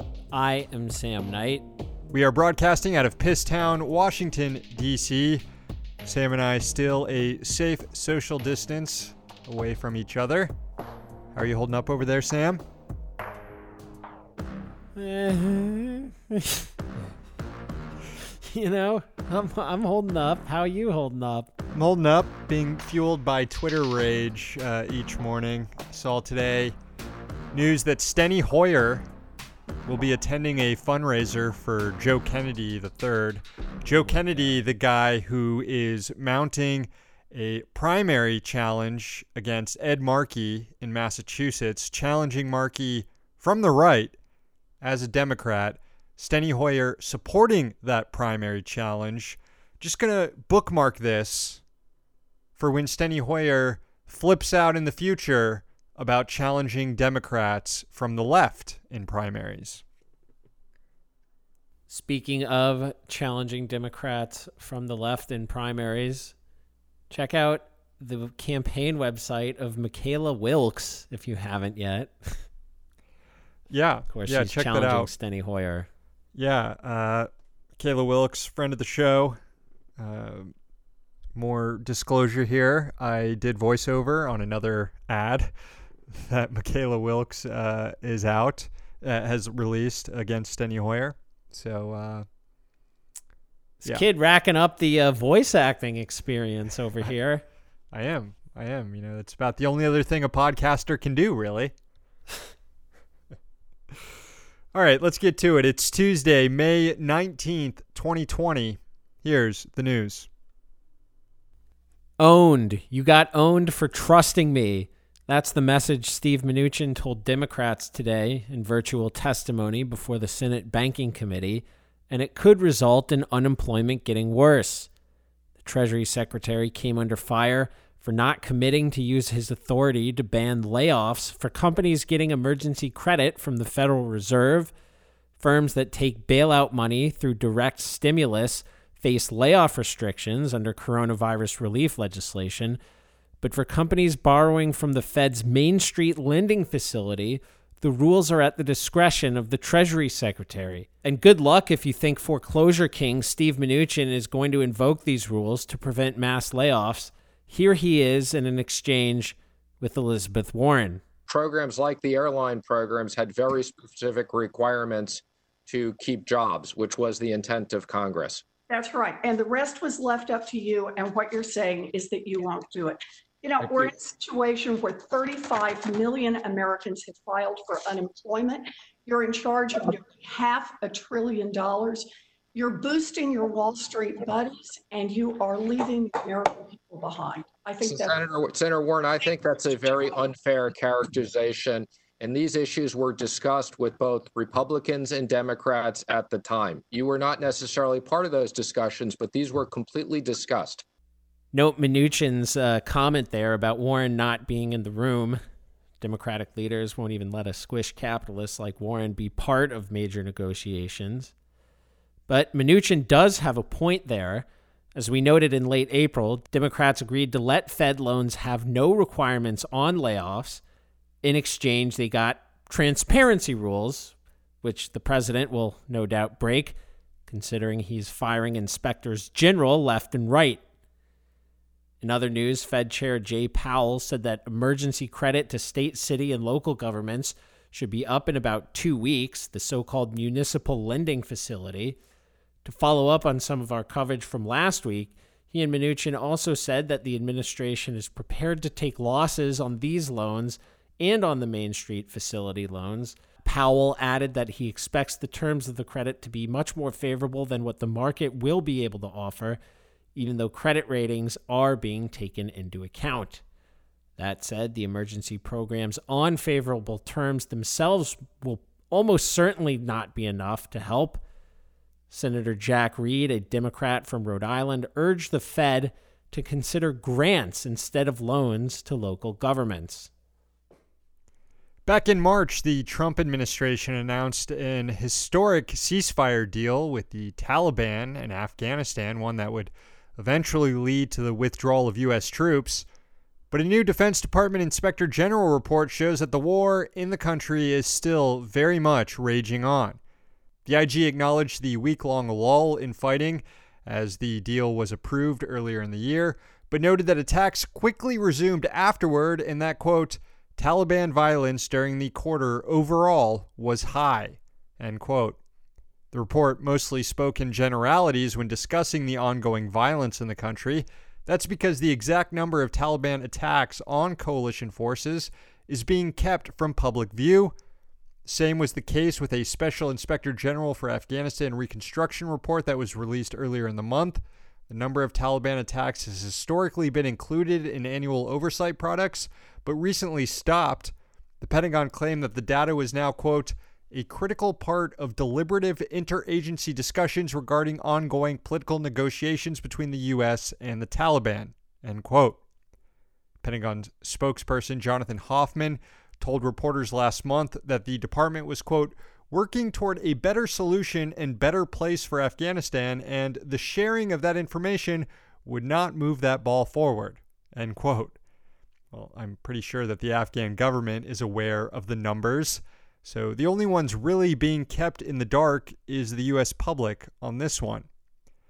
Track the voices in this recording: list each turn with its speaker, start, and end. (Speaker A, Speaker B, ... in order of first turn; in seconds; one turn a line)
Speaker A: 0.3-1.6
Speaker B: 2.1-5.4
Speaker B: 6.0-10.5
Speaker B: 11.3-12.6
Speaker A: 14.9-16.7
Speaker A: 18.2-21.5
Speaker B: 21.7-26.7
Speaker B: 27.5-29.1
Speaker B: 29.9-44.2
Speaker B: 44.8-51.6
Speaker B: 52.6-59.8
Speaker A: 61.9-66.3
Speaker A: 67.1-72.4
Speaker B: 73.7-75.1
Speaker A: 74.1-75.9
Speaker B: 76.3-79.4
Speaker B: 80.0-80.5
Speaker B: 81.3-85.5
Speaker B: 86.1-92.2
Speaker A: 93.8-97.4
Speaker B: 97.9-101.7
Speaker B: 104.7-110.3
Speaker A: 112.2-124.9
Speaker A: 125.6-134.7
Speaker A: 135.4-142.8
Speaker A: 143.4-161.0
Speaker C: 161.3-168.4
Speaker D: 168.7-188.1
Speaker C: 173.6-173.9
Speaker C: 187.8-200.8
Speaker A: 201.5-205.4
Speaker A: 206.0-211.3
Speaker A: 212.3-220.6
Speaker A: 221.2-230.6
Speaker A: 232.0-242.0
Speaker A: 242.6-259.6
Speaker A: 260.1-263.4
Speaker A: 264.2-271.2
Speaker A: 272.1-280.1
Speaker B: 281.9-292.9
Speaker B: 293.5-300.0
Speaker B: 300.6-315.4
Speaker B: 316.1-327.5
Speaker B: 328.3-352.4
Speaker B: 353.4-368.2
Speaker B: 368.9-377.9